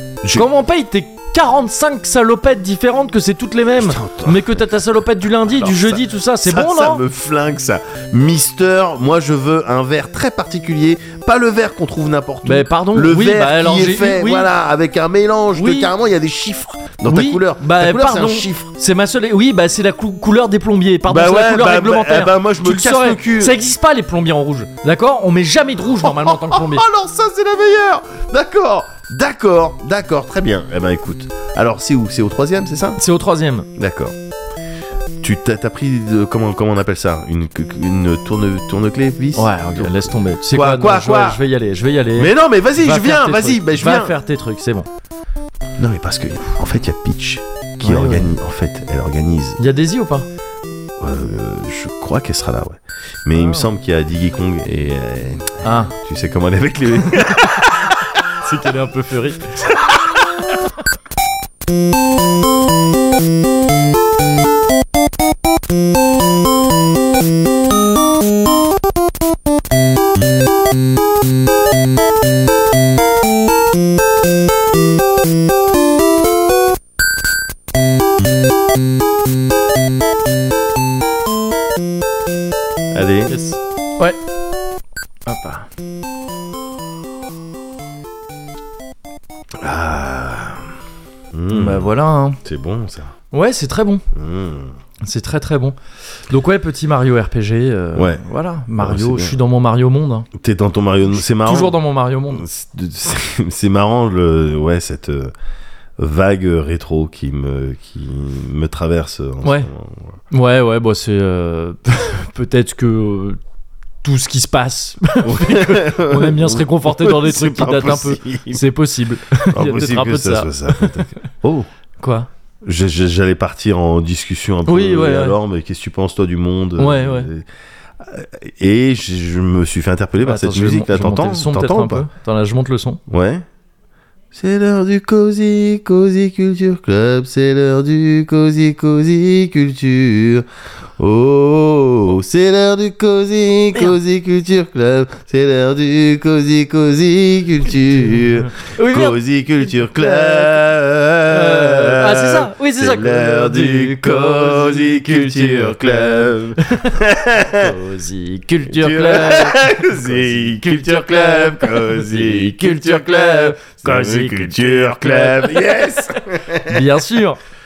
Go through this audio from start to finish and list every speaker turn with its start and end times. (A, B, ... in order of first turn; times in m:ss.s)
0:00.3-0:07.0 A
0:03.8-0:04.6 B
0:05.4-0:18.7 B
0:12.4-0:14.5 A
0:15.6-0:15.9 A
0:17.1-0:26.8 A
0:21.1-0:23.6 B
0:26.0-0:33.0 B
0:33.0-0:33.7 A
0:33.8-0:34.1 B
0:35.2-0:41.4 B
0:39.4-0:44.9 A
0:42.2-0:44.1 B
0:45.8-0:49.6 B
0:47.8-0:48.3 A
0:49.6-0:50.3 A
0:51.0-0:58.1 B
0:53.4-0:53.7 A
0:55.6-0:55.9 A
0:58.4-0:59.7 A
1:22.9-1:23.4 B
1:23.3-1:24.2 A
1:25.3-1:25.7 A
1:29.6-1:30.7 B
1:31.3-1:31.9 B
1:31.5-1:32.4 A
1:32.4-1:33.1 B
1:33.3-1:34.0 A
1:34.1-1:34.7 B
1:35.0-1:35.8 A
1:36.3-1:40.3 A
1:37.9-1:38.2 B
1:38.8-1:39.4 B
1:40.3-1:41.8 B
1:41.4-1:42.4 A
1:42.3-1:45.3 B
1:46.0-1:50.1 B
1:49.4-1:49.7 A
1:50.3-1:53.4 A
1:54.0-2:01.2 A
1:55.2-1:58.6 B
1:59.5-2:01.7 B
2:02.0-2:02.3 A
2:02.6-2:07.4 B
2:04.7-2:05.4 A
2:06.8-2:07.3 A
2:08.0-2:12.1 B
2:10.2-2:13.0 A
2:13.1-2:13.4 B
2:14.3-2:20.4 B
2:21.0-2:37.7 B
2:28.1-2:29.2 A
2:29.9-2:30.6 A
2:31.3-2:37.0 A
2:37.5-2:47.4 A
2:38.7-2:46.8 B